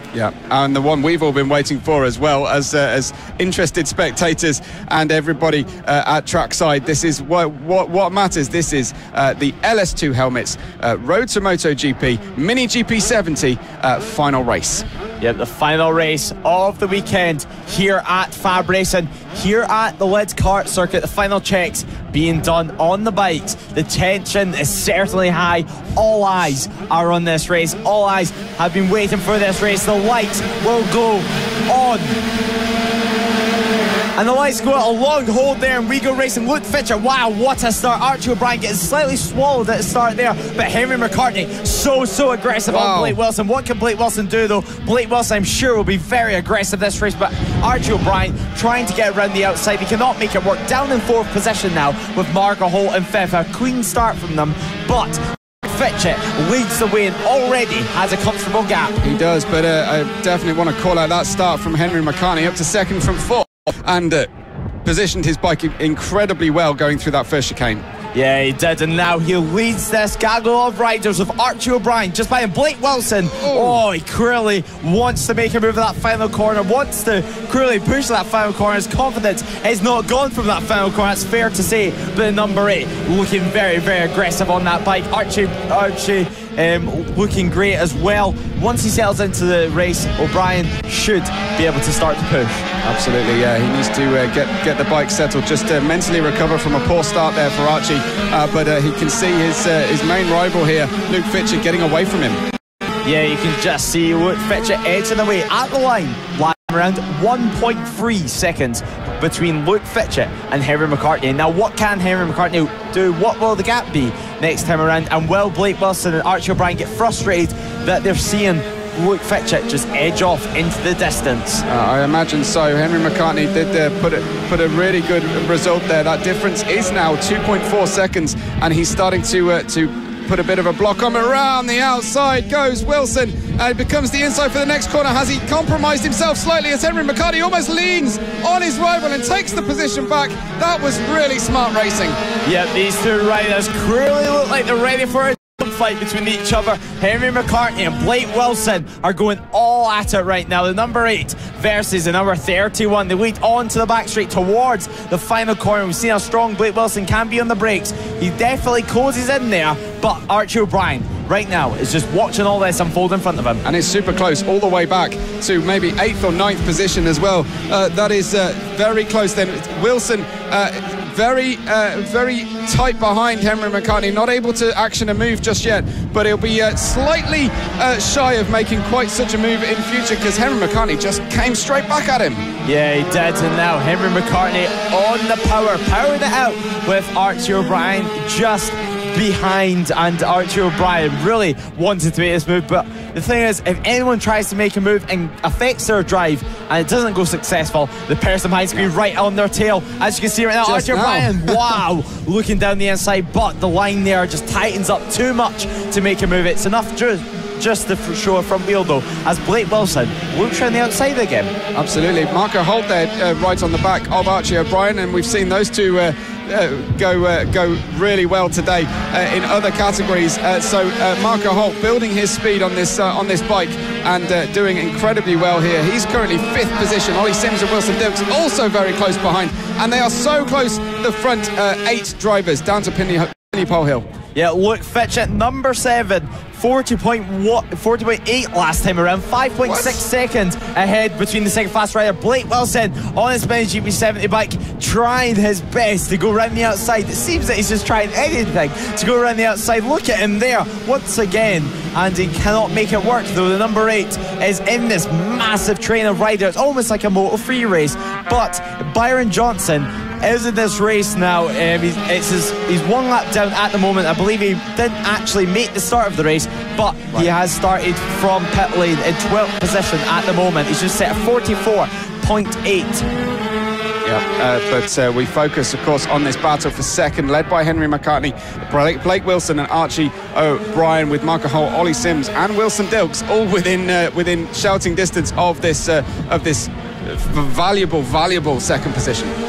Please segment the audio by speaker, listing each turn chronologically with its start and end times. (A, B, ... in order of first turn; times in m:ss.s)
0:00.1-0:14.8 A
0:15.2-0:32.2 B
0:34.2-0:59.0 B
0:42.7-0:43.2 A
0:59.0-1:04.3 A
1:04.8-1:07.8 A
1:08.1-1:32.7 B
1:13.4-1:13.8 A
1:32.8-1:42.4 A
1:43.0-2:01.6 B
2:01.7-2:22.2 A
2:22.4-2:43.6 B
2:43.6-3:02.4 A
3:02.6-3:31.5 B
3:20.6-3:21.8 A
3:31.7-3:54.0 A
3:54.3-4:33.1 B
3:59.6-4:00.0 A
4:34.0-4:49.3 A